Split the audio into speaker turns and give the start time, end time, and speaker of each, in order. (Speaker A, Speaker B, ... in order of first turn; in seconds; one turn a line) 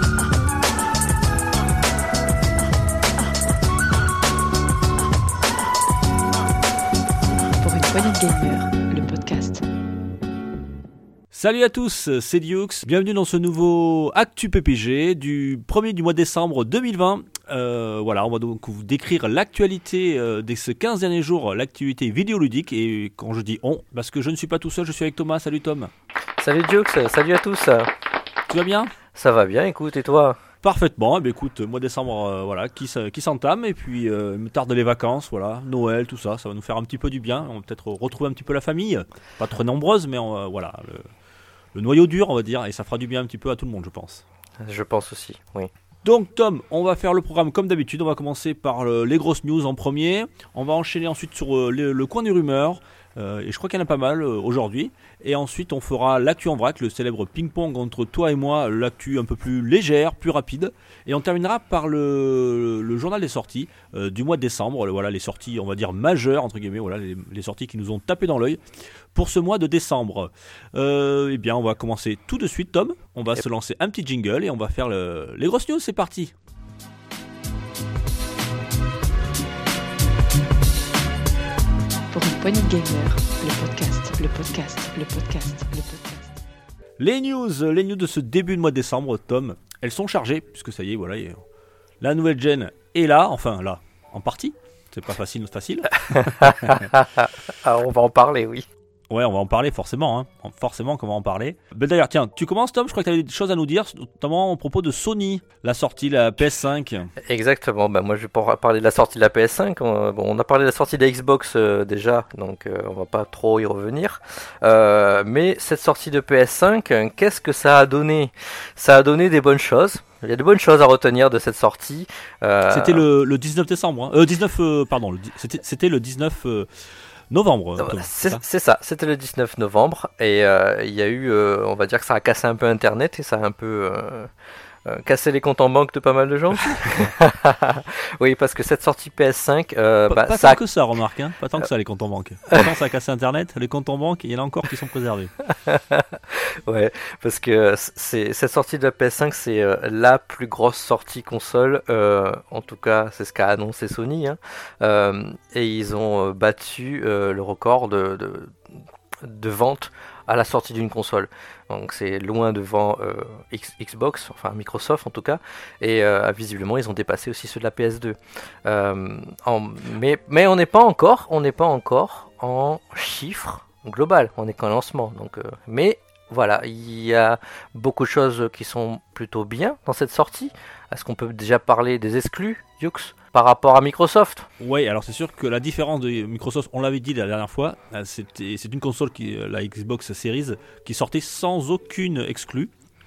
Speaker A: 7.5-9.6
Speaker B: 11.3-25.9
Speaker C: 26.4-27.9
Speaker B: 28.5-28.9
Speaker C: 29.1-30.4
Speaker B: 30.6-41.1
Speaker B: 41.7-44.2
Speaker C: 44.6-45.7
Speaker B: 46.0-76.3
Speaker A: 82.1-86.4
Speaker B: 87.0-91.4
Speaker B: 92.0-96.8
Speaker C: 96.1-98.7
Speaker B: 99.1-107.1
Speaker C: 107.2-123.0
Speaker B: 122.7-126.7
Speaker B: 127.3-128.4
Speaker C: 127.8-134.3
Speaker C: 134.8-140.6
Speaker B: 140.1-145.3
Speaker C: 145.5-158.6
Speaker C: 159.2-184.5
Speaker B: 184.6-192.7